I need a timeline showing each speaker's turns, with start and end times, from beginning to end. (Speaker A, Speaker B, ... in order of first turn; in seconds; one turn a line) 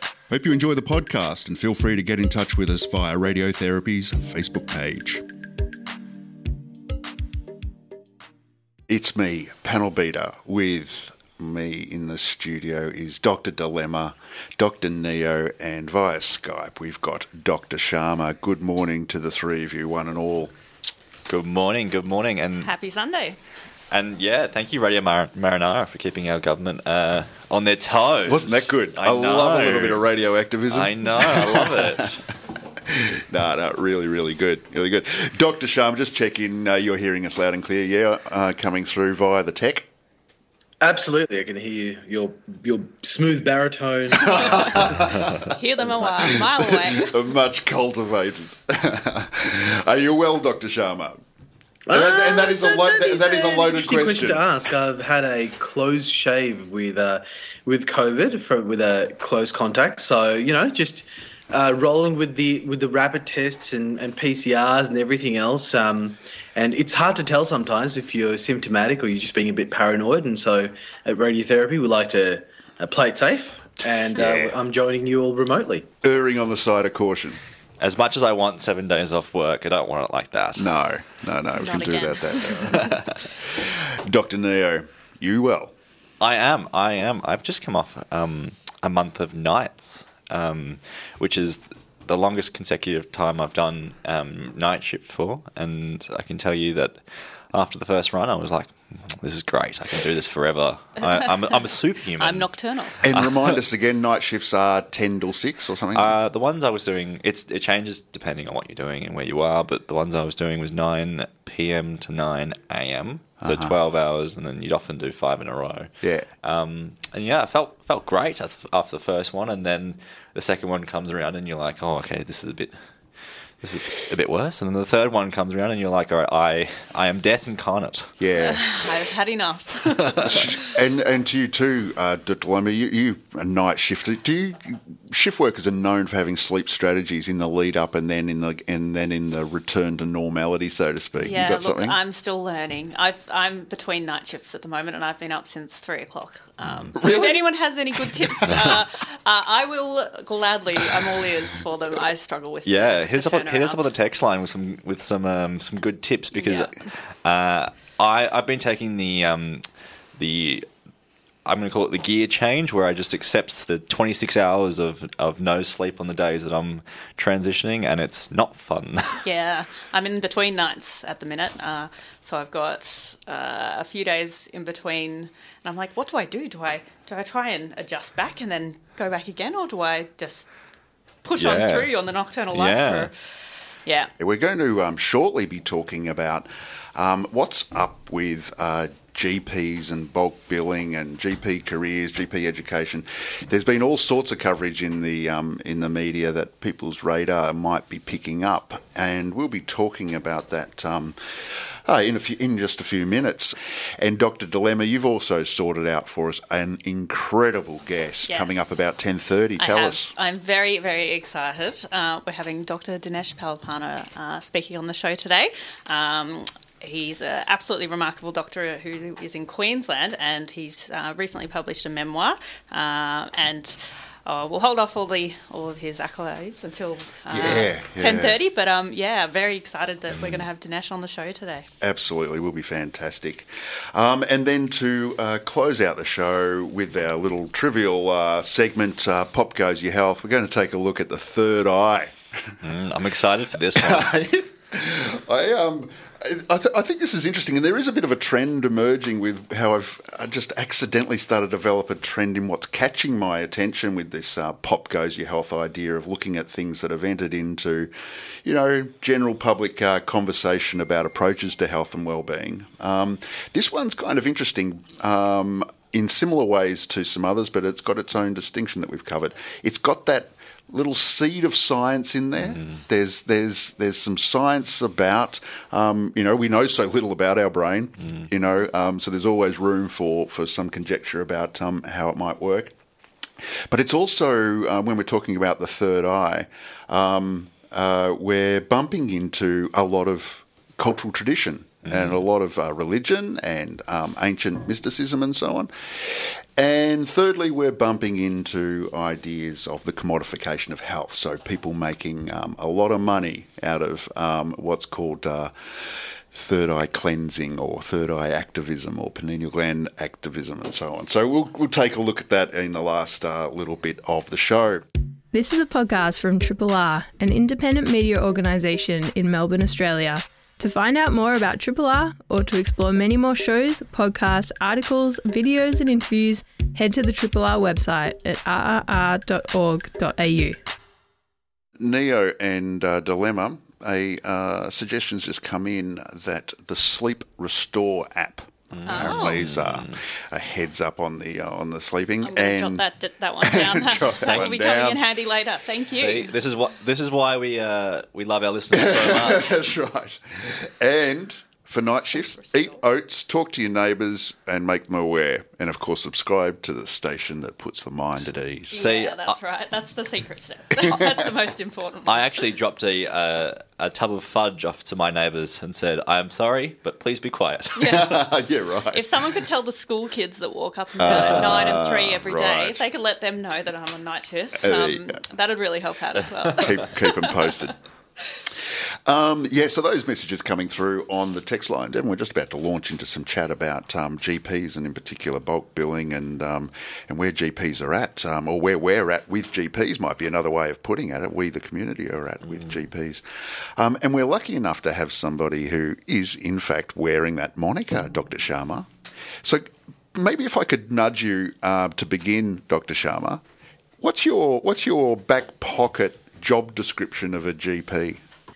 Speaker A: 0.3-5.2
Speaker A: 8.9-20.6
Speaker B: 21.3-22.7
Speaker C: 22.6-23.4
Speaker B: 23.9-30.0
Speaker A: 28.3-32.1
Speaker B: 30.7-32.3
Speaker A: 32.9-39.9
Speaker D: 40.8-44.9
Speaker A: 44.2-51.2
Speaker C: 44.2-44.8
Speaker C: 45.5-47.2
Speaker D: 51.9-75.9
Speaker A: 51.9-54.5
Speaker A: 74.2-74.6
Speaker A: 76.0-77.4
Speaker B: 77.8-80.7
Speaker A: 80.6-85.8
Speaker C: 81.5-83.0
Speaker B: 86.2-103.6
Speaker C: 101.0-101.6
Speaker C: 102.2-103.0
Speaker A: 103.0-106.2
Speaker B: 105.9-115.9
Speaker A: 113.4-113.8
Speaker A: 116.0-116.3
Speaker B: 116.4-122.7
Speaker B: 123.6-128.1
Speaker A: 128.2-128.7
Speaker C: 128.4-130.7
Speaker A: 130.2-142.0
Speaker C: 141.2-153.9
Speaker B: 146.7-147.1
Speaker B: 152.7-159.6
Speaker C: 156.3-156.7
Speaker B: 160.2-160.7
Speaker B: 161.4-169.2
Speaker C: 169.2-180.5
Speaker C: 181.2-183.1
Speaker B: 181.4-181.9
Speaker B: 182.5-183.1
Speaker C: 183.9-184.1
Speaker A: 184.2-210.1
Speaker C: 208.3-208.8
Speaker C: 209.6-231.7
Speaker A: 227.3-228.4
Speaker A: 231.8-242.6
Speaker B: 242.6-244.1
Speaker A: 243.8-257.9
Speaker A: 258.4-282.8
Speaker B: 272.5-272.8
Speaker A: 283.4-314.9
Speaker B: 291.9-292.2
Speaker E: 315.3-330.6
Speaker A: 331.8-342.9
Speaker B: 338.7-339.9
Speaker C: 338.9-339.5
Speaker C: 342.2-346.3
Speaker A: 343.4-345.0
Speaker B: 344.3-344.5
Speaker B: 346.0-349.6
Speaker A: 348.7-358.8
Speaker C: 352.1-352.8
Speaker C: 358.7-362.3
Speaker B: 358.7-359.4
Speaker A: 360.8-361.2
Speaker B: 362.1-368.2
Speaker C: 367.8-368.1
Speaker A: 367.8-369.1
Speaker C: 368.9-377.5
Speaker A: 371.0-372.9
Speaker B: 371.1-371.7
Speaker A: 374.6-375.2
Speaker A: 376.6-377.8
Speaker A: 379.1-398.9
Speaker A: 399.4-403.4
Speaker A: 404.0-408.2